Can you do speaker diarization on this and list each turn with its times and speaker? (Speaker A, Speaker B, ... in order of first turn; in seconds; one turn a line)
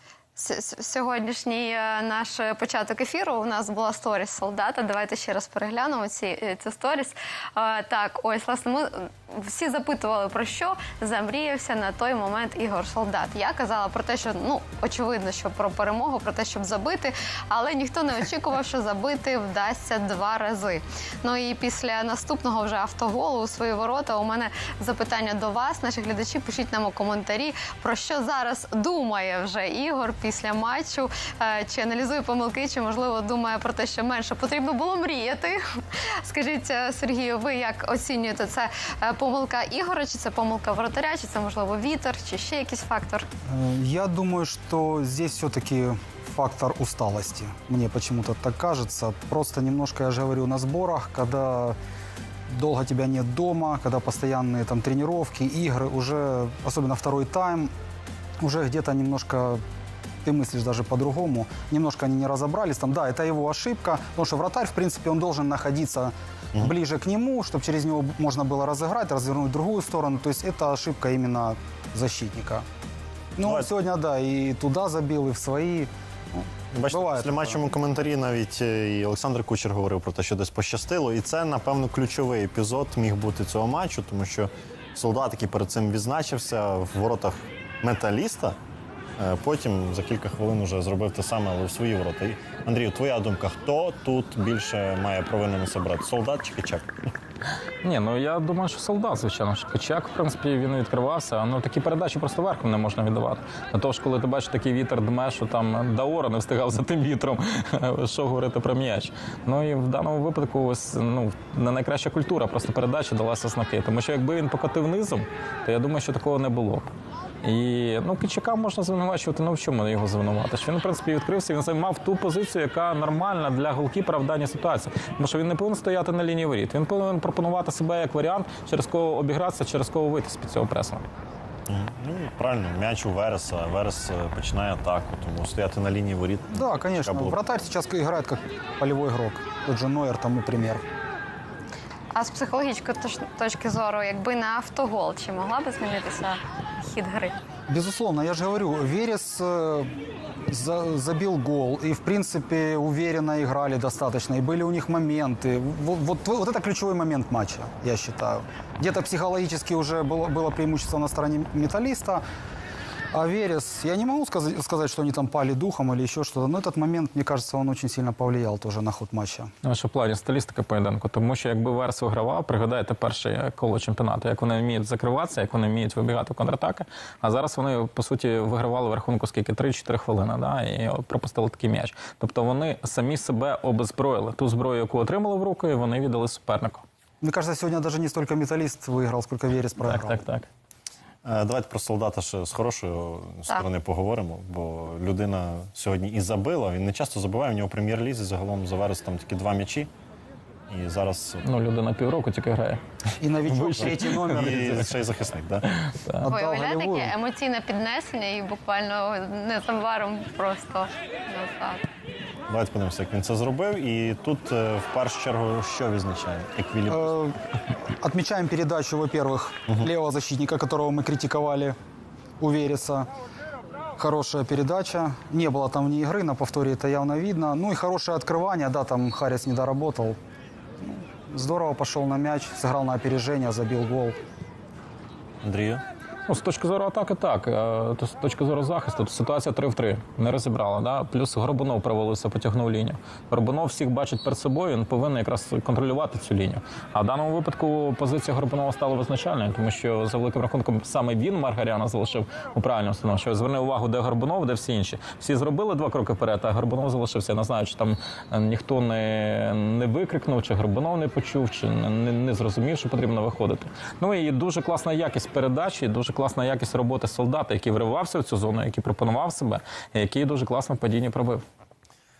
Speaker A: 0.4-43.3
Speaker B: 43.5-51.8
Speaker B: 52.5-57.7
Speaker B: 58.4-59.6
Speaker B: 60.2-72.6
Speaker B: 73.3-77.6
Speaker C: 73.4-73.7
Speaker C: 76.7-88.6
Speaker C: 89.2-96.9
Speaker D: 97.8-116.9
Speaker D: 117.4-131.0
Speaker C: 131.7-137.4
Speaker B: 136.5-140.8
Speaker A: 142.1-147.4
Speaker B: 147.7-162.2
Speaker B: 163.1-169.5
Speaker D: 169.6-186.8
Speaker B: 187.2-190.2
Speaker D: 189.8-190.5
Speaker C: 191.2-199.9
Speaker C: 200.7-201.4
Speaker D: 201.4-202.8
Speaker B: 203.2-204.9
Speaker D: 203.5-204.5
Speaker C: 203.8-205.7
Speaker D: 205.8-206.2
Speaker B: 206.2-207.1
Speaker A: 206.3-211.8
Speaker C: 212.5-217.2
Speaker B: 216.9-217.4
Speaker B: 218.0-221.8
Speaker B: 222.4-223.1
Speaker B: 224.0-230.2
Speaker B: 230.8-234.2
Speaker C: 235.4-235.8
Speaker D: 236.3-271.4